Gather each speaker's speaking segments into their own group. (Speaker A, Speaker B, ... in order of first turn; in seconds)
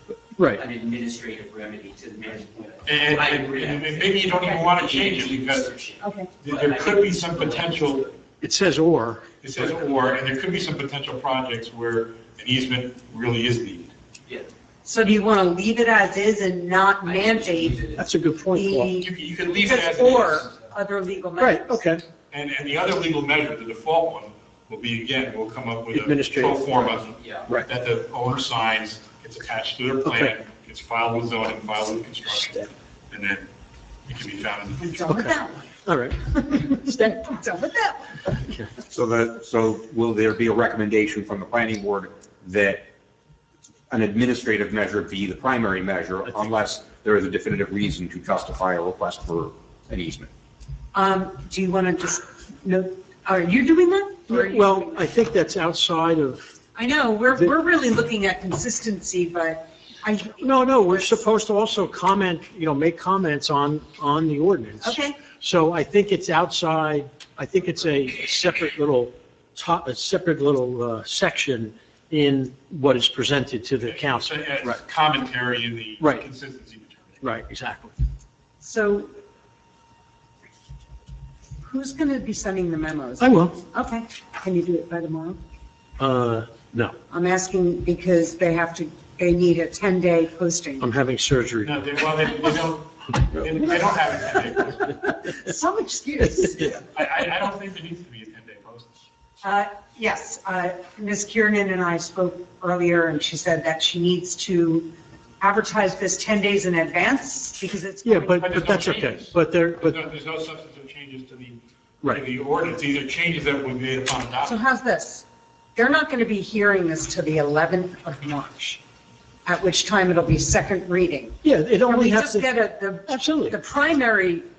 Speaker A: 0.4-0.6, 8.4-9.3, 17.9-18.9, 21.4-22.0, 25.9-27.1, 30.0-30.3, 35.1-37.0, 54.3-56.4, 60.4-74.8, 77.2-77.9, 83.2-83.6, 86.0-87.0, 90.8-91.8, 108.0-110.0, 121.4-122.5, 123.1-123.6
Speaker B: 0.4-8.1, 17.0-18.0, 27.1-27.5
Speaker C: 2.8-5.8, 6.4-8.1, 9.4-13.9, 19.0-20.5, 22.3-33.5, 34.1-35.0, 73.8-77.2, 91.6-95.0, 96.9-99.0, 108.4-109.3, 109.8-114.6
Speaker D: 14.8-17.9, 18.5-21.8, 34.8-35.7, 36.3-38.2, 50.9-54.8, 56.7-61.0, 64.8-65.2, 78.6-79.1, 81.6-85.4, 87.1-90.9, 95.2-96.8, 99.4-108.7, 114.4-118.8, 119.5-124.5
Speaker E: 38.8-42.8, 43.9-50.3